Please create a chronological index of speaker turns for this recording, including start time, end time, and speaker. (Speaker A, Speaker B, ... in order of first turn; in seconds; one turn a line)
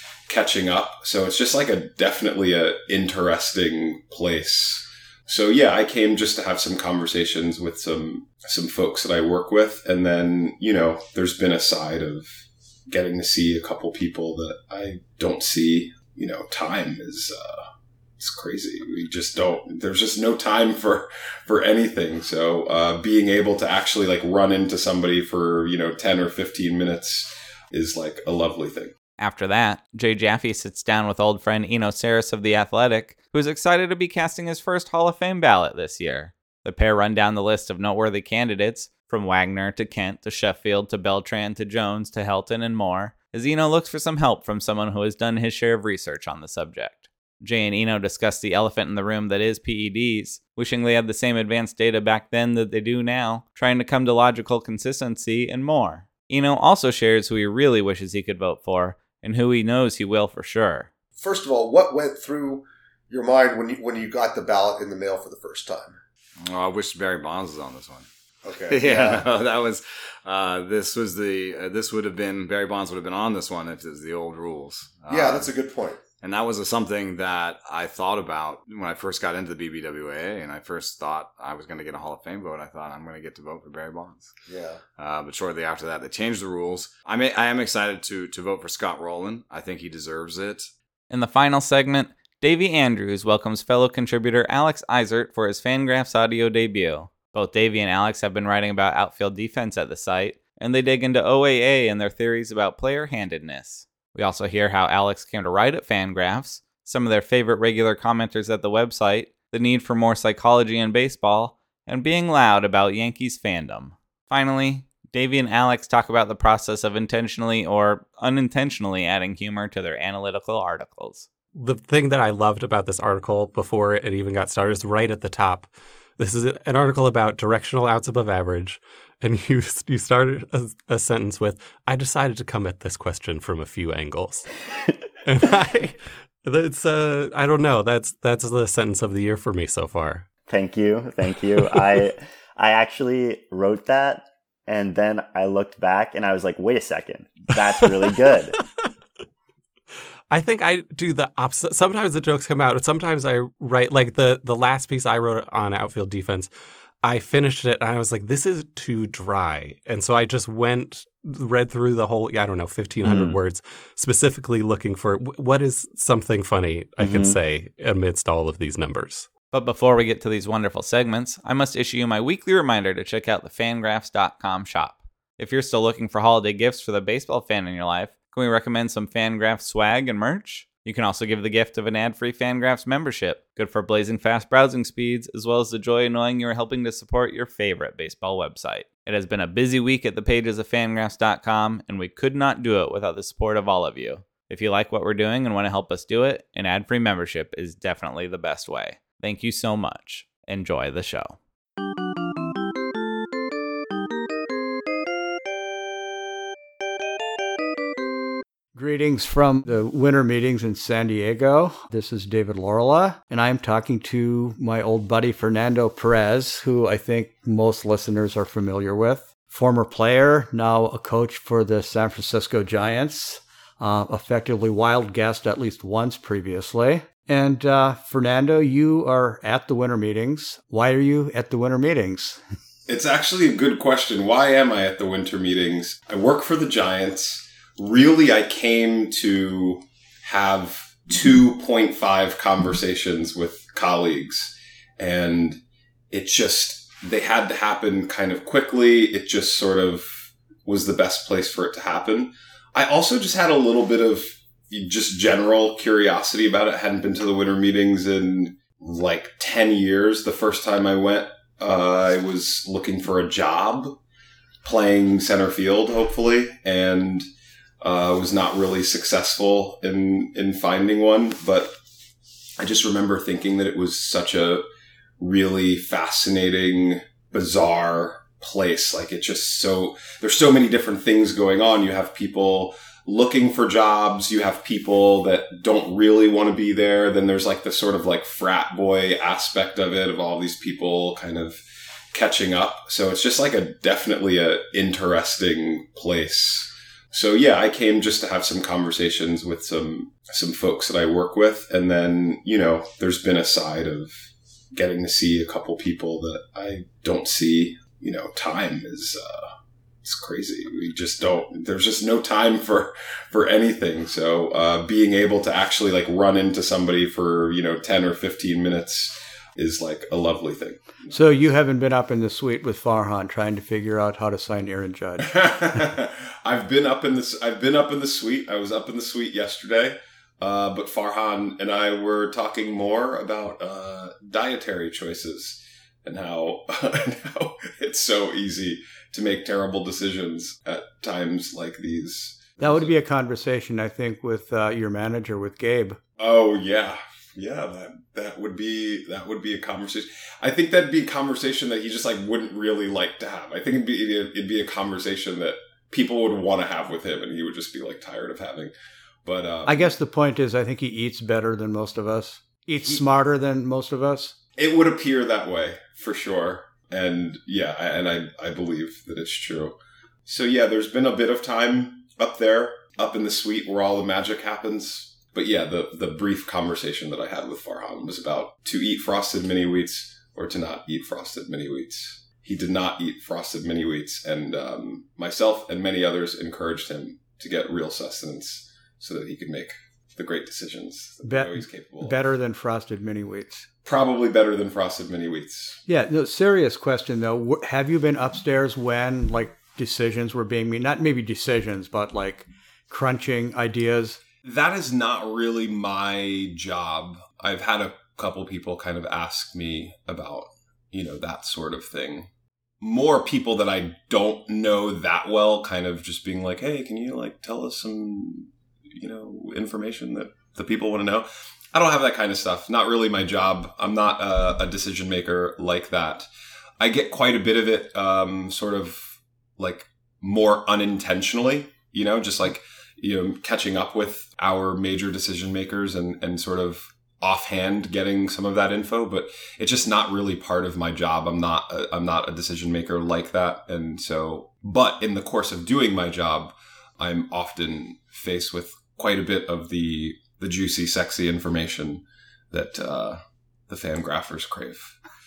Speaker A: 0.3-28.9
Speaker B: 29.2-60.9
Speaker C: 61.2-66.0
Speaker D: 66.5-68.1
Speaker C: 68.4-69.2
Speaker D: 68.7-75.5
Speaker C: 75.1-76.0
Speaker D: 76.2-84.3
Speaker C: 84.5-84.8
Speaker D: 85.0-90.7
Speaker B: 91.1-121.3
Speaker E: 121.5-134.5
Speaker E: 135.2-140.3
Speaker F: 140.5-148.6
Speaker E: 150.3-156.5
Speaker E: 157.0-169.3
Speaker F: 163.0-163.4
Speaker F: 167.0-167.4
Speaker B: 169.5-201.4
Speaker G: 208.8-232.4
Speaker A: 232.9-264.0
Speaker A: 264.6-267.2
Speaker A: 267.8-271.7
Speaker A: 272.6-274.6
Speaker A: 275.2-291.6
Speaker A: 292.1-321.3
Speaker G: 321.1-325.4
Speaker A: 325.2-342.9
Speaker G: 342.6-346.0
Speaker A: 346.2-358.7
Speaker A: 359.2-359.9
Speaker G: 359.7-364.4
Speaker A: 364.6-392.2
Speaker G: 391.2-393.7
Speaker A: 393.9-395.8
Speaker G: 395.9-404.2
Speaker A: 404.4-412.3
Speaker A: 412.8-426.3
Speaker A: 426.8-454.9